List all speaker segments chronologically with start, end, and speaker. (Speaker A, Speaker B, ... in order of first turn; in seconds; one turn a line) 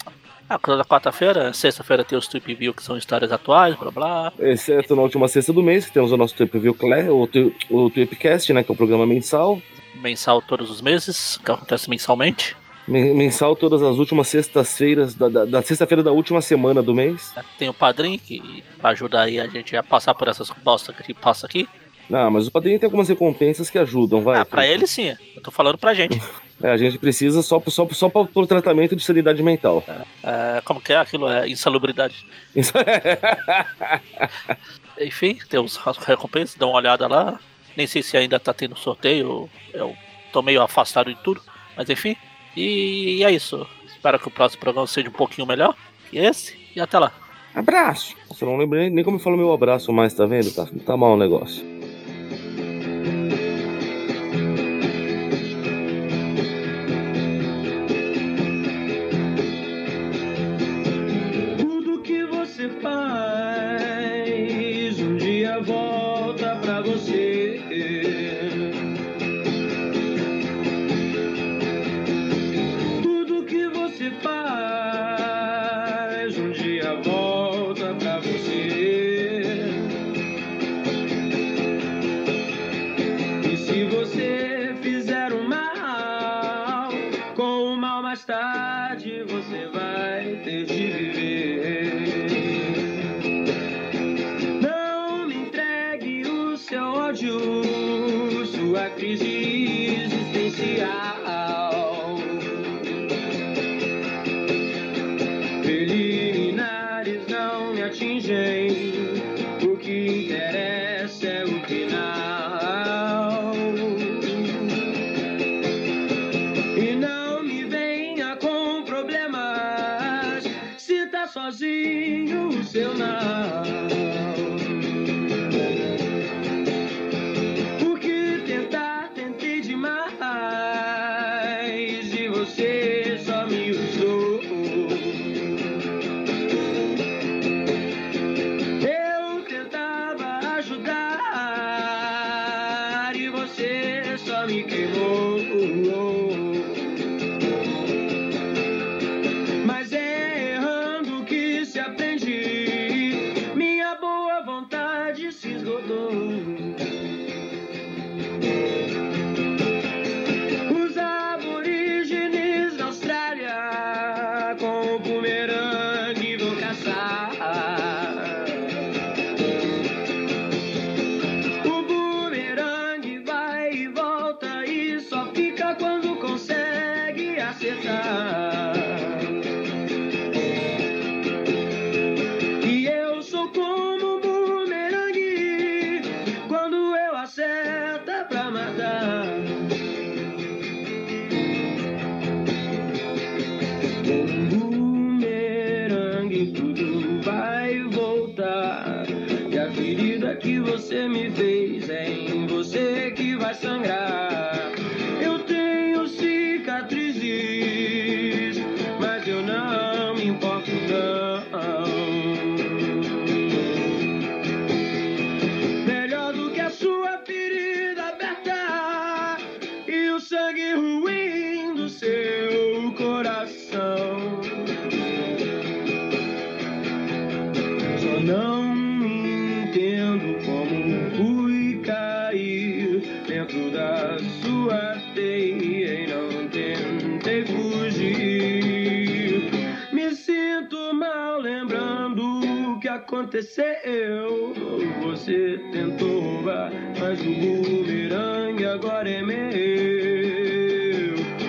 Speaker A: 0.5-4.3
Speaker B: 4.4-9.6
Speaker A: 9.9-12.6
Speaker B: 12.9-17.3
Speaker A: 17.4-21.7
Speaker B: 22.1-24.8
Speaker A: 24.3-26.2
Speaker B: 26.6-29.8
Speaker A: 29.9-32.2
Speaker B: 32.5-34.3
Speaker A: 35.0-47.1
Speaker B: 47.5-51.6
Speaker C: 61.6-68.8
Speaker C: 73.0-79.9
Speaker C: 83.4-93.0
Speaker C: 94.6-103.0
Speaker C: 105.6-115.0
Speaker C: 116.7-125.2
Speaker C: 127.8-135.7
Speaker C: 138.8-147.1
Speaker C: 149.6-156.9
Speaker C: 160.7-168.9
Speaker C: 171.6-179.3
Speaker C: 182.6-189.8
Speaker C: 194.0-213.3
Speaker C: 215.8-224.7
Speaker C: 227.9-251.2